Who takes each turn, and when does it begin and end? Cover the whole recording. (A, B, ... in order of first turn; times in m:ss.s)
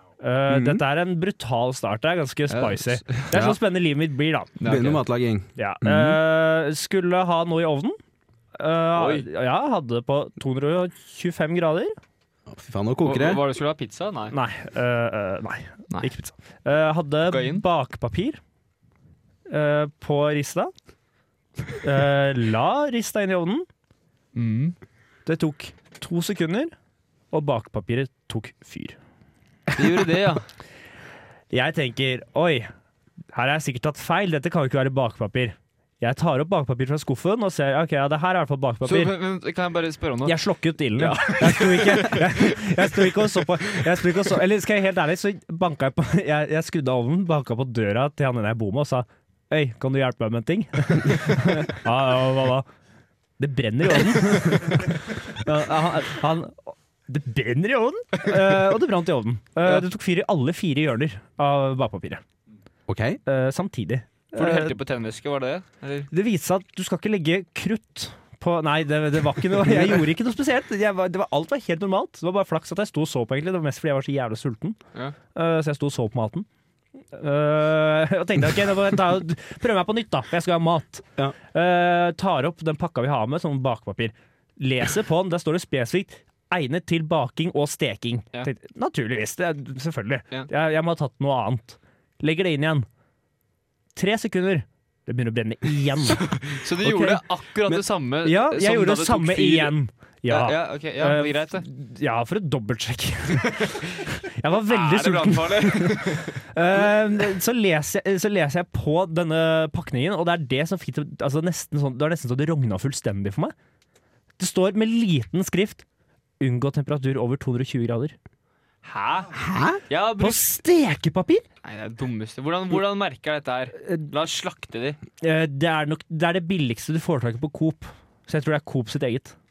0:00.2-0:04.6 A
0:00.5-0:00.8 B
0:02.5-0:03.3 C
0:03.3-0:03.6 B
0:04.6-0:05.0 C
0:04.6-0:06.2 B
0:05.6-0:08.0 A
0:08.6-0:12.0 A
0:08.9-0:09.2 C
0:12.5-0:13.4 B
0:13.0-0:14.3 C
0:14.3-0:18.4 A
0:17.3-0:17.6 C
0:19.5-0:20.7 A
0:21.8-0:23.7 A
0:24.3-0:24.8 C
0:25.2-0:26.7 A
0:27.3-0:29.0 A
0:29.7-0:30.4 C
0:31.5-0:32.7 A
0:33.3-0:39.1 A
0:38.8-0:40.4 C
0:40.2-0:52.7 A
0:41.0-0:42.7 C
0:53.4-1:02.2 A
1:02.9-1:03.2 B
1:03.2-1:04.8 A
1:04.3-1:06.1 C
1:06.1-1:14.8 A
1:15.3-1:16.5 A
1:17.1-1:32.8 A
1:34.0-1:36.3 A
1:36.1-1:39.7 C
1:36.8-1:37.8 B
1:38.2-1:53.5 A
1:40.3-1:41.6 C
1:44.7-1:46.4 C
1:54.4-1:55.8 A
1:56.4-1:58.2 A
1:58.9-1:59.3 C
1:59.3-1:59.8 B
1:59.9-2:00.6 C
2:00.2-2:01.4 A
2:01.6-2:05.0 C
2:03.8-2:04.1 A
2:05.2-2:09.4 A